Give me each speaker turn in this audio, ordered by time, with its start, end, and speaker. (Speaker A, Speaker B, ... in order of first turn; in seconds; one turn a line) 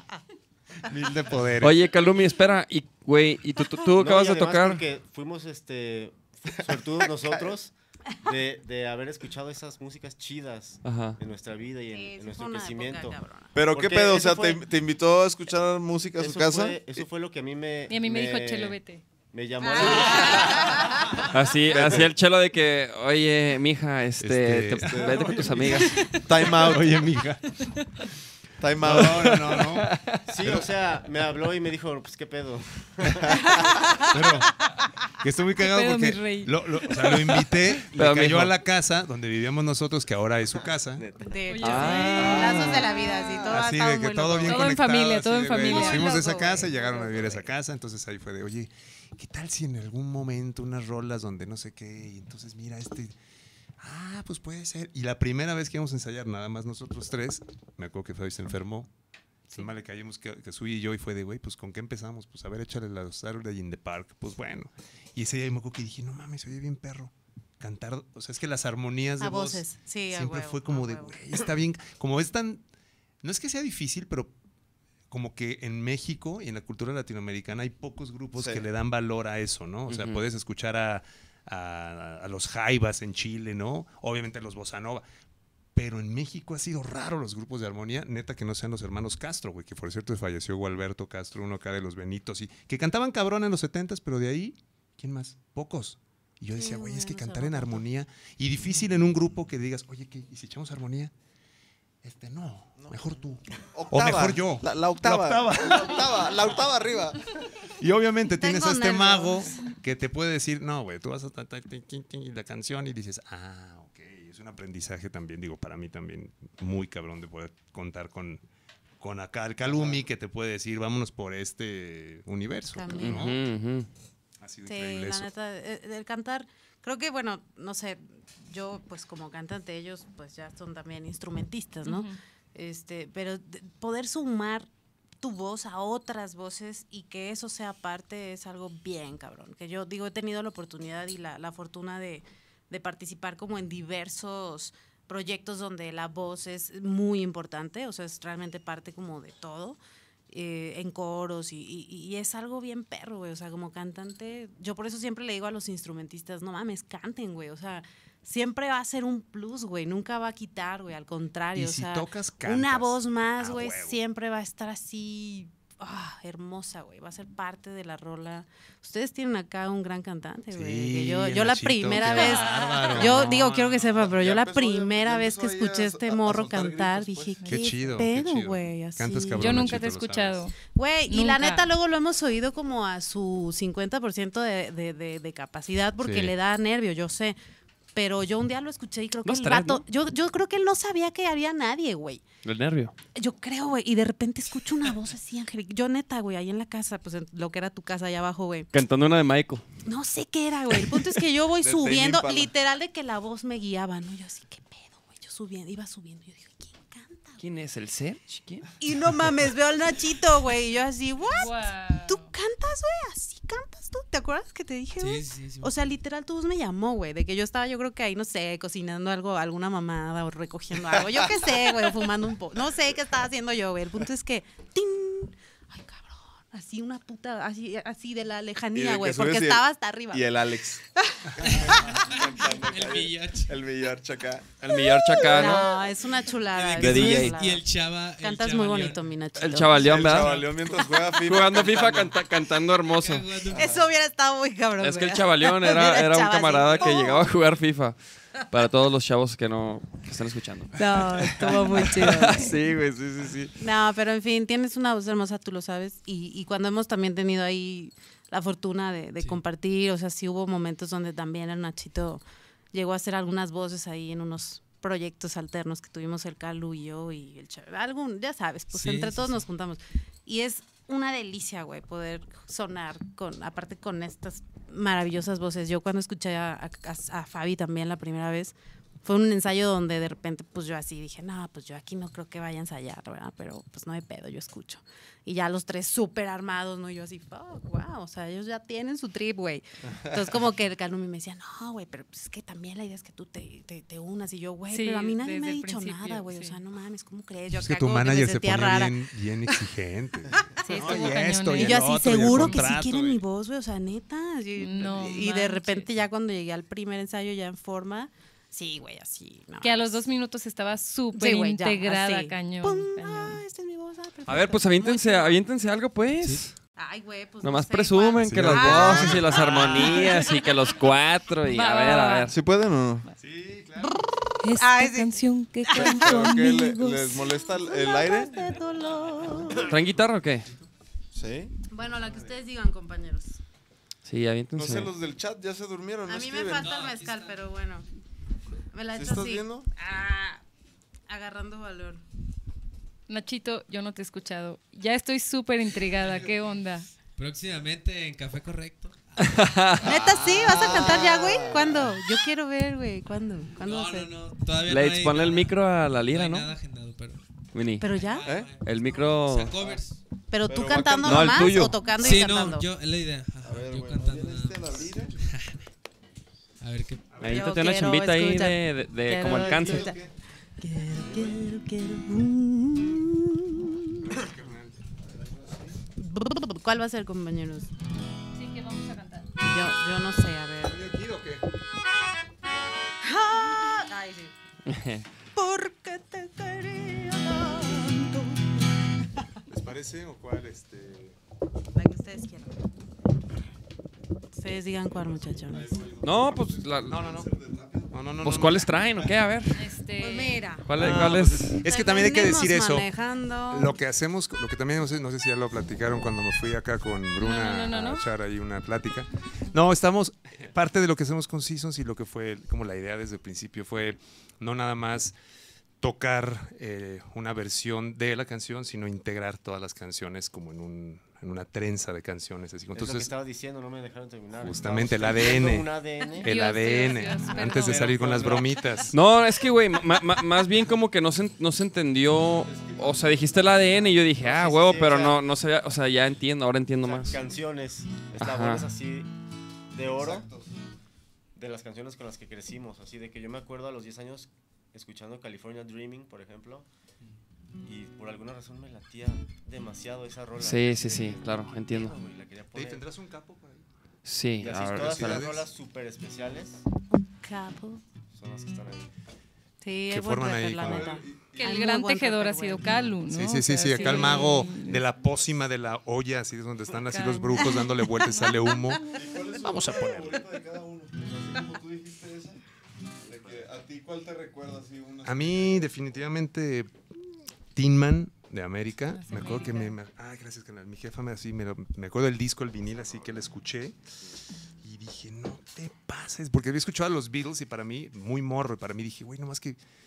Speaker A: 0.8-1.8
Speaker B: 1.6-4.8
Speaker C: 3.9-14.7
Speaker B: 10.8-11.2
Speaker D: 11.9-13.5
Speaker E: 13.5-16.9
Speaker C: 16.2-18.8
Speaker F: 17.9-19.0
Speaker C: 19.3-21.2
Speaker D: 19.6-21.3
Speaker B: 21.3-26.1
Speaker E: 21.7-22.1
Speaker A: 24.2-25.3
Speaker E: 24.7-27.2
Speaker A: 26.6-27.4
Speaker E: 28.6-29.6
Speaker A: 28.8-29.9
Speaker B: 28.9-30.2
Speaker C: 30.3-33.8
Speaker A: 34.1-34.5
Speaker A: 35.2-41.0
Speaker F: 35.6-36.5
Speaker B: 37.9-38.5
Speaker C: 41.0-41.4
Speaker D: 41.2-44.8
Speaker F: 41.5-42.7
Speaker B: 41.6-42.9
Speaker E: 42.2-42.6
Speaker A: 43.5-53.1
Speaker F: 44.5-46.7
Speaker D: 45.6-47.1
Speaker A: 53.8-58.9
Speaker A: 59.5-72.6
Speaker D: 69.2-71.2
Speaker A: 73.2-74.3
Speaker A: 75.1-85.0
Speaker E: 78.4-78.7
Speaker B: 79.9-80.2
Speaker A: 85.8-101.1
Speaker D: 96.5-97.8
Speaker A: 102.0-106.6
Speaker E: 102.8-107.3
Speaker A: 107.8-118.4
Speaker D: 108.4-109.6
Speaker A: 119.0-123.5
Speaker E: 119.6-120.0
Speaker D: 122.7-123.2
Speaker B: 123.0-123.9
Speaker A: 124.4-125.3
Speaker D: 124.7-134.7
Speaker F: 131.9-132.2
Speaker D: 135.2-149.8
Speaker D: 150.3-179.8
Speaker A: 161.6-164.0
Speaker A: 170.5-174.1
Speaker F: 171.9-173.2
Speaker E: 174.0-177.6
Speaker A: 177.5-180.5
Speaker F: 179.4-180.5
Speaker D: 180.7-187.4
Speaker F: 181.1-181.7
Speaker A: 186.0-186.3
Speaker D: 187.9-192.2
Speaker B: 189.2-189.8
Speaker B: 192.4-192.9
Speaker D: 193.2-198.7
Speaker B: 198.7-199.6
Speaker D: 199.8-207.4
Speaker E: 201.6-202.5
Speaker B: 207.4-208.7
Speaker D: 208.8-230.3
Speaker F: 211.4-212.3
Speaker G: 215.0-215.7
Speaker E: 228.8-230.8
Speaker D: 231.0-232.0
Speaker E: 231.4-234.5
Speaker G: 231.4-233.5
Speaker B: 234.6-235.7
Speaker D: 234.8-239.9
Speaker G: 236.4-239.0
Speaker B: 236.8-237.4
Speaker B: 239.4-240.5
Speaker E: 239.8-242.2
Speaker G: 240.1-240.6
Speaker B: 241.2-243.3
Speaker G: 243.0-243.8
Speaker D: 243.5-247.3
Speaker B: 244.8-253.5
Speaker D: 250.8-252.5
Speaker D: 253.6-299.6
Speaker G: 268.7-269.4
Speaker F: 294.7-296.6
Speaker A: 297.5-303.2
Speaker D: 300.4-310.0
Speaker F: 300.6-302.7
Speaker F: 304.6-305.9
Speaker F: 309.6-313.4
Speaker D: 311.1-315.4
Speaker B: 314.3-316.5
Speaker D: 316.8-320.5
Speaker B: 317.4-322.4
Speaker A: 318.2-319.8
Speaker F: 321.4-322.3
Speaker E: 322.3-323.1
Speaker A: 323.2-323.9
Speaker F: 324.4-327.2
Speaker D: 324.6-326.2
Speaker E: 325.8-328.4
Speaker D: 327.4-329.8
Speaker B: 329.6-330.5
Speaker E: 331.1-331.6
Speaker D: 331.7-333.4
Speaker B: 334.1-334.9
Speaker E: 334.6-336.8
Speaker D: 336.1-337.9
Speaker G: 336.6-337.4
Speaker D: 338.7-340.4
Speaker E: 338.9-339.7
Speaker D: 341.1-342.0
Speaker F: 343.1-346.9
Speaker G: 346.0-346.4
Speaker G: 347.1-349.4
Speaker B: 349.2-350.0
Speaker D: 349.8-354.1
Speaker E: 349.9-351.9
Speaker G: 353.6-357.2
Speaker B: 354.7-356.5
Speaker B: 357.5-357.9
Speaker D: 357.8-358.3
Speaker G: 357.8-360.0
Speaker E: 358.2-358.5
Speaker B: 358.6-359.6
Speaker D: 360.3-362.7
Speaker E: 360.5-361.7
Speaker B: 361.0-361.8
Speaker G: 361.9-365.7
Speaker E: 363.4-365.2
Speaker G: 366.6-367.2
Speaker A: 367.1-367.5
Speaker B: 367.2-369.9
Speaker D: 367.2-370.0
Speaker E: 369.5-370.1
Speaker D: 370.6-374.1
Speaker A: 374.0-374.8
Speaker E: 375.1-375.7
Speaker D: 376.0-377.7
Speaker F: 378.3-379.3
Speaker D: 379.4-380.8
Speaker A: 380.6-381.4
Speaker D: 383.0-384.3
Speaker B: 384.7-385.1
Speaker D: 385.4-388.5
Speaker A: 389.5-391.2
Speaker D: 391.8-392.5
Speaker D: 394.4-395.8
Speaker E: 394.9-398.0
Speaker B: 396.0-397.0
Speaker A: 396.9-397.3
Speaker A: 397.9-398.8
Speaker B: 398.2-399.6
Speaker F: 399.6-400.6
Speaker D: 400.0-400.7
Speaker B: 400.6-401.6
Speaker A: 400.8-402.9
Speaker D: 401.6-403.7
Speaker A: 403.5-415.1
Speaker F: 407.2-408.1
Speaker A: 415.8-423.1
Speaker C: 422.7-426.3
Speaker A: 424.4-429.0
Speaker F: 426.2-428.4
Speaker C: 427.4-428.6
Speaker B: 428.9-437.2
Speaker E: 432.4-434.0
Speaker C: 434.2-435.2
Speaker C: 436.8-439.1
Speaker B: 438.2-438.7
Speaker C: 439.7-440.3
Speaker E: 439.8-440.6
Speaker C: 441.4-446.7
Speaker C: 447.6-452.9
Speaker B: 450.4-452.0
Speaker A: 452.5-453.6
Speaker B: 454.1-455.4
Speaker C: 454.4-456.6
Speaker A: 454.7-455.5
Speaker D: 457.2-457.8
Speaker C: 458.1-458.9
Speaker D: 459.6-462.9
Speaker A: 459.9-461.0
Speaker E: 460.6-461.6
Speaker F: 461.4-464.8
Speaker A: 463.1-470.2
Speaker F: 466.8-468.4
Speaker E: 468.9-472.4
Speaker E: 473.0-475.7
Speaker A: 475.0-483.8
Speaker F: 478.9-479.8
Speaker A: 484.6-489.6